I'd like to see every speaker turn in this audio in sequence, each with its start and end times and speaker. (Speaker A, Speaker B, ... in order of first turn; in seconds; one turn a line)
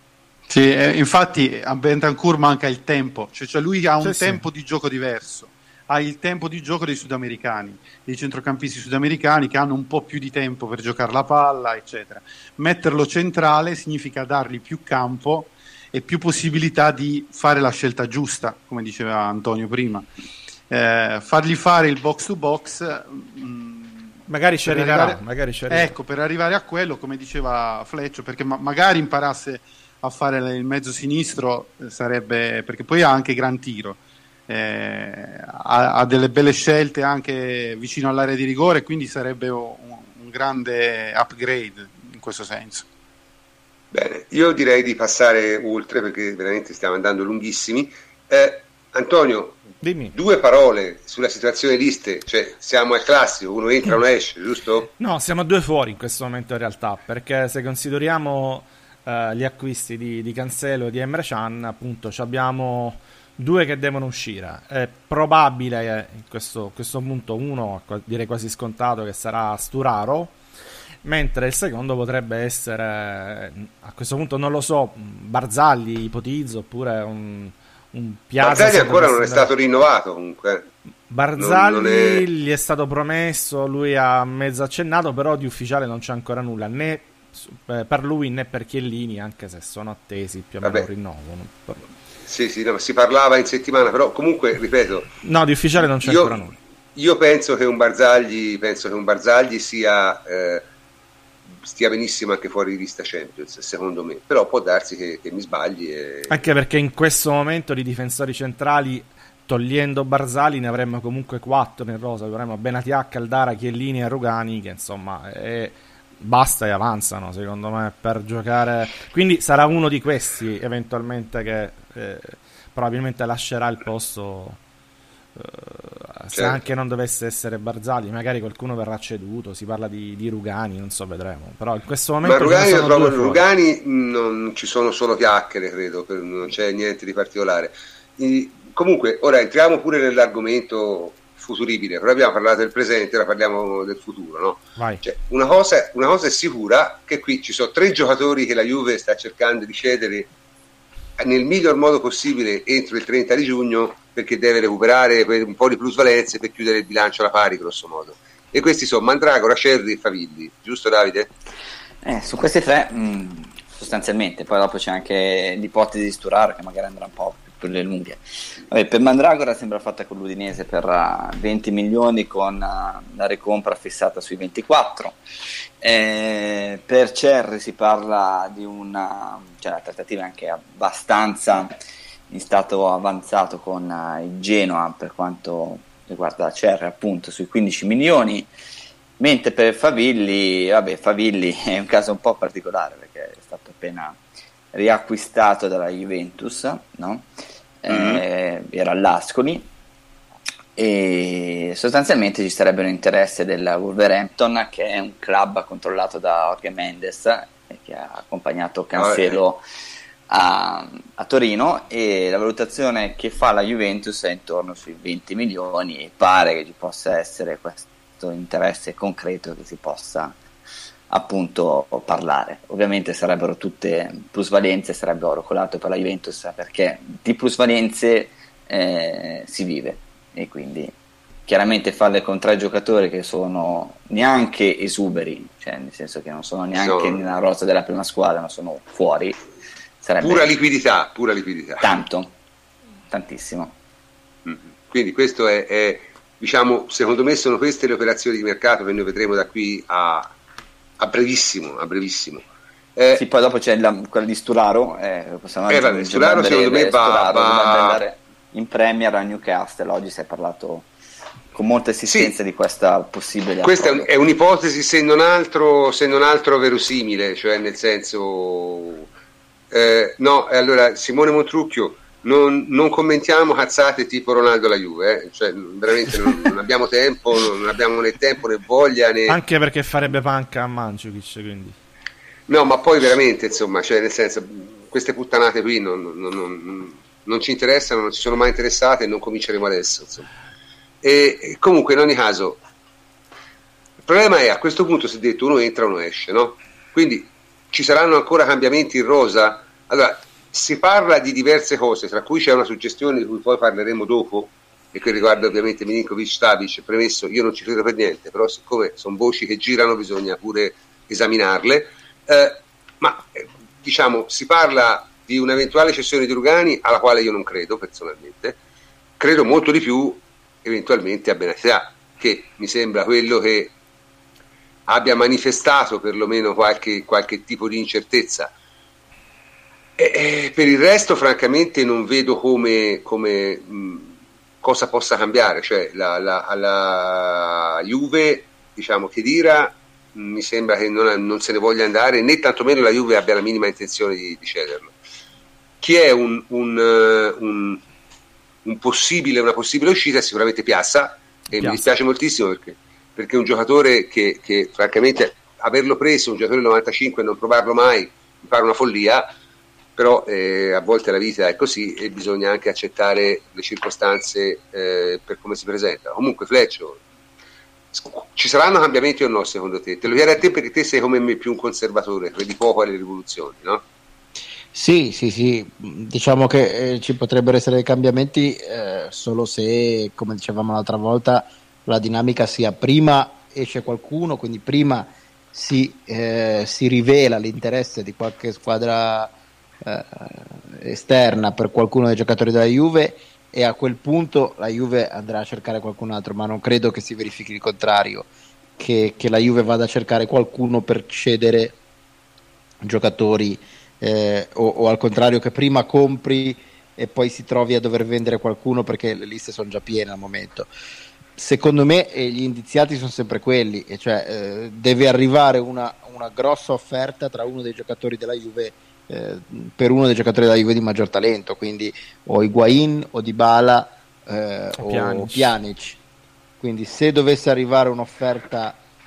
Speaker A: 0.5-20.1
Speaker B: 4.0-4.4
Speaker A: 20.7-25.2
Speaker B: 24.3-25.9
Speaker A: 25.7-42.9
Speaker C: 43.9-54.9
Speaker B: 49.8-50.1
Speaker B: 55.0-70.3
Speaker B: 71.0-79.5
Speaker C: 78.4-80.7
Speaker B: 81.1-91.8
Speaker C: 81.4-82.2
Speaker C: 92.2-95.1
Speaker B: 95.2-96.5
Speaker C: 95.8-96.4
Speaker C: 97.0-100.6
Speaker C: 101.6-106.5
Speaker B: 106.3-124.6
Speaker B: 125.3-133.4
Speaker C: 126.3-126.6
Speaker C: 132.2-150.3
Speaker B: 144.8-145.0
Speaker C: 151.2-161.3
Speaker D: 162.0-175.2
Speaker D: 175.8-181.7
Speaker D: 182.3-188.5
Speaker D: 189.2-194.2
Speaker D: 194.7-197.3
Speaker D: 197.8-199.7
Speaker C: 197.9-198.2
Speaker D: 200.8-209.6
Speaker C: 208.9-209.4
Speaker D: 210.3-220.3
Speaker D: 221.1-230.9
Speaker D: 231.4-239.4
Speaker C: 236.7-237.3
Speaker D: 240.0-240.5
Speaker C: 240.2-242.0
Speaker D: 241.8-242.3
Speaker D: 243.1-243.8
Speaker C: 244.4-250.3
Speaker C: 251.0-252.4
Speaker C: 253.0-253.2
Speaker D: 253.1-260.9
Speaker C: 255.7-258.0
Speaker D: 261.5-264.1
Speaker C: 262.0-262.4
Speaker C: 263.6-269.1
Speaker C: 269.7-279.4
Speaker B: 279.3-281.8
Speaker C: 282.5-290.3
Speaker C: 291.0-292.6
Speaker C: 294.1-318.6
Speaker C: 319.2-323.7
Speaker C: 324.9-328.5
Speaker C: 330.0-334.1
Speaker C: 334.6-344.9
Speaker C: 345.8-347.8
Speaker C: 348.6-359.3
Speaker B: 351.5-351.9
Speaker C: 360.0-367.0
Speaker C: 367.9-373.8
Speaker E: 374.7-401.8
Speaker E: 402.8-410.7
Speaker E: 411.4-426.0
Speaker B: 424.8-425.5
Speaker E: 426.6-428.8